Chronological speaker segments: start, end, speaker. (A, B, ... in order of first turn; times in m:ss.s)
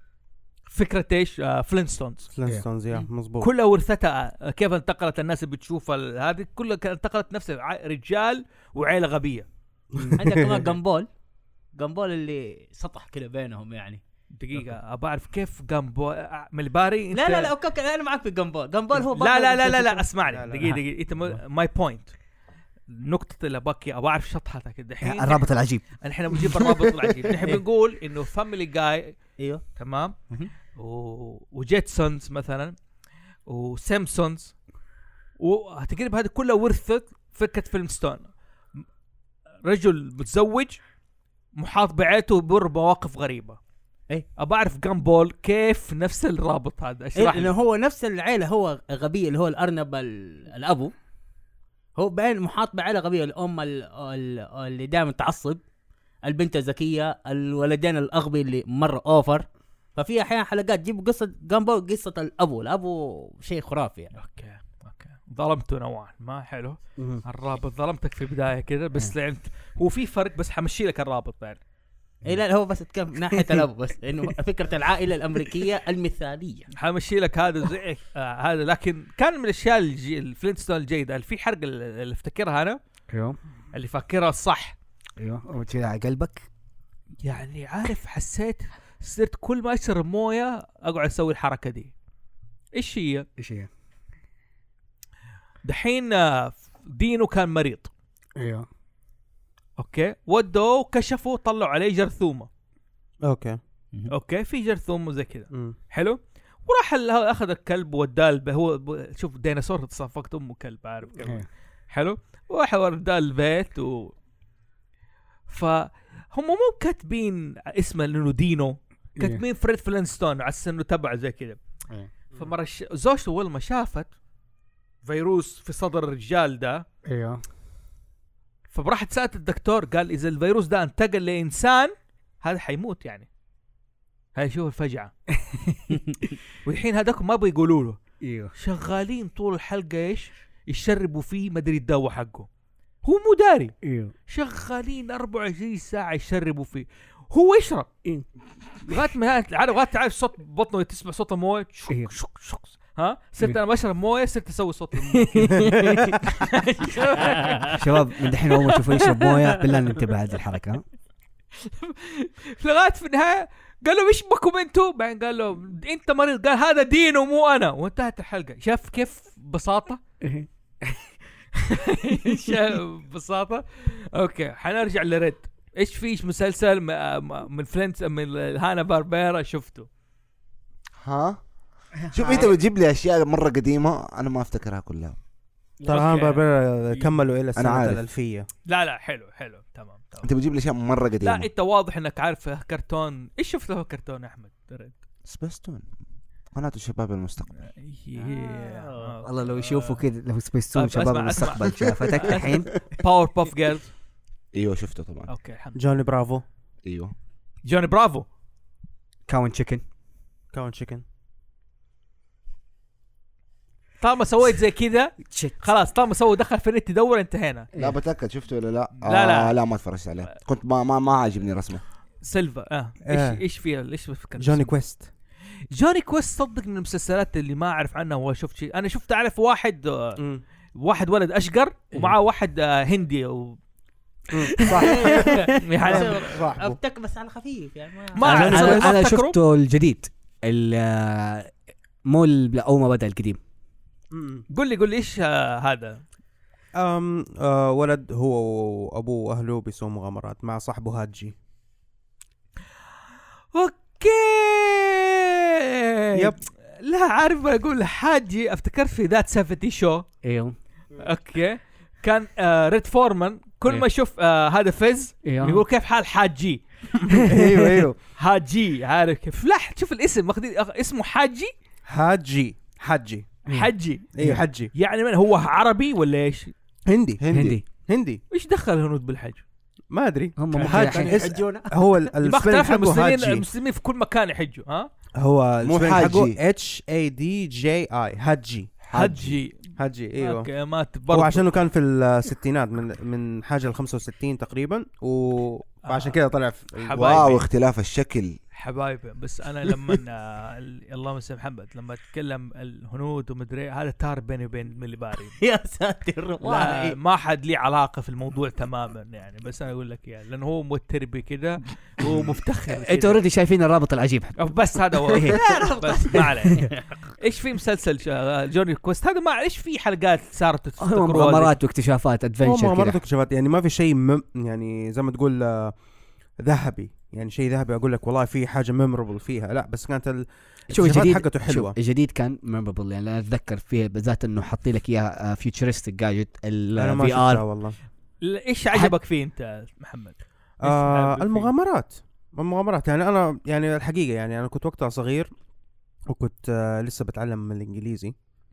0:00.7-0:02.3 A
0:02.3-0:03.5 B
0:03.4-0:09.5 A
0:09.9-0:10.7 B
0:10.2-0:11.1 C
0:11.8-0:14.0 C
0:14.3-0:17.5 A
0:17.1-0:20.0 C
0:19.1-0:22.1 A
0:20.3-0:20.7 B
0:22.9-0:25.5 A
0:25.0-0:25.8 D
0:26.0-0:29.2 A
0:26.4-0:26.6 D
0:29.4-0:29.6 C
0:29.8-0:30.2 A
0:30.7-0:32.8 A
0:33.5-0:34.6 A
0:35.4-0:38.3 A
0:39.6-0:40.8 A
0:41.6-0:43.6 A
0:44.4-0:47.5 A
0:47.2-0:50.9 C
0:52.0-0:55.6 C
0:56.2-1:04.1 C
1:04.2-1:11.6 A
1:12.2-1:16.7 C
1:13.3-1:13.6 D
1:16.8-1:22.8 A
1:23.1-1:23.4 D
1:23.7-1:24.8 A
1:25.2-1:26.5 D
1:27.2-1:31.9 A
1:32.8-1:33.3 A
1:33.4-1:33.7 D
1:35.6-1:37.9 A
1:38.4-1:38.7 D
1:39.8-1:42.5 A
1:43.2-1:43.6 B
1:44.1-1:54.1 A
1:55.5-2:01.6 A
2:02.4-2:04.1 A
2:05.0-2:06.8 A
2:07.1-2:07.4 D
2:08.7-2:13.3 A
2:14.4-2:15.1 A
2:16.6-2:18.0 A
2:18.2-2:18.5 D
2:18.6-2:22.5 A
2:23.0-2:23.8 A
2:23.8-2:24.1 D
2:24.3-2:27.9 A
2:28.8-2:39.3 A
2:35.3-2:36.2 D
2:37.7-2:40.8 D
2:41.6-2:50.0 A
2:50.2-2:51.1 D
2:51.6-2:59.9 A
2:52.3-2:52.6 D
3:01.0-3:01.4 E
3:02.0-3:02.5 D
3:02.1-3:05.2 E
3:05.8-3:08.5 B
3:05.9-3:06.4 A
3:07.6-3:08.0 E
3:08.7-3:10.3 A
3:10.2-3:11.5 E
3:11.2-3:15.0 A
3:15.2-3:15.9 E
3:16.5-3:17.5 E
3:17.6-3:20.0 A
3:18.2-3:19.2 C
3:19.2-3:22.7 D
3:20.7-3:23.9 A
3:24.5-3:25.3 E
3:25.3-3:25.8 A
3:25.8-3:26.4 B
3:26.8-3:27.1 E
3:27.6-3:28.3 A
3:29.3-3:29.8 D
3:30.5-3:31.0 B
3:34.0-3:37.7 A
3:35.3-3:35.6 D
3:37.8-3:41.8 E
3:39.0-3:39.6 A
3:42.2-3:44.7 A
3:43.1-3:43.4 B
3:44.4-3:45.1 B
3:45.7-3:50.2 A
3:50.2-3:50.4 B
3:50.8-3:53.6 A
3:54.3-3:56.8 B
3:54.6-3:58.5 C
3:54.7-3:55.4 D
3:55.6-3:56.3 A
3:58.2-3:59.4 A
3:58.2-4:01.5 D
3:58.2-3:58.9 B
4:02.1-4:03.4 D
4:04.1-4:04.5 B
4:04.5-4:06.0 A
4:06.8-4:11.4 B
4:13.5-4:20.1 A
4:16.1-4:16.4 B
4:20.2-4:20.6 D
4:21.0-4:26.6 A
4:25.2-4:25.6 D
4:27.1-4:27.9 D
4:27.1-4:28.0 B
4:28.2-4:31.5 A
4:31.9-4:33.3 B
4:33.5-4:34.1 A
4:33.5-4:34.4 D
4:34.2-4:34.7 B
4:34.7-4:36.5 A
4:36.9-4:38.2 B
4:37.2-4:37.5 E
4:37.3-4:37.6 D
4:38.3-4:39.4 A
4:39.9-4:43.5 B
4:40.4-4:41.2 D
4:40.5-4:41.9 C
4:42.2-4:44.9 A
4:45.2-4:49.0 B
4:45.6-4:46.4 E
4:48.9-4:49.3 E
4:48.9-4:51.4 A
4:49.8-4:50.5 B
4:51.1-4:57.4 B
4:55.8-4:56.2 A
4:56.8-4:57.5 A
4:56.9-4:58.4 E
4:58.5-5:05.4 A
5:05.4-5:07.0 C
5:06.4-5:13.2 A
5:12.7-5:14.5 D
5:14.4-5:21.6 A
5:15.1-5:15.4 D
5:15.3-5:16.7 C
5:20.8-5:23.0 D
5:22.4-5:25.8 B
5:26.4-5:31.8 B
5:30.7-5:37.4 D
5:36.8-5:37.8 B
5:38.2-5:41.5 A
5:40.6-5:45.3 B
5:46.1-5:48.1 B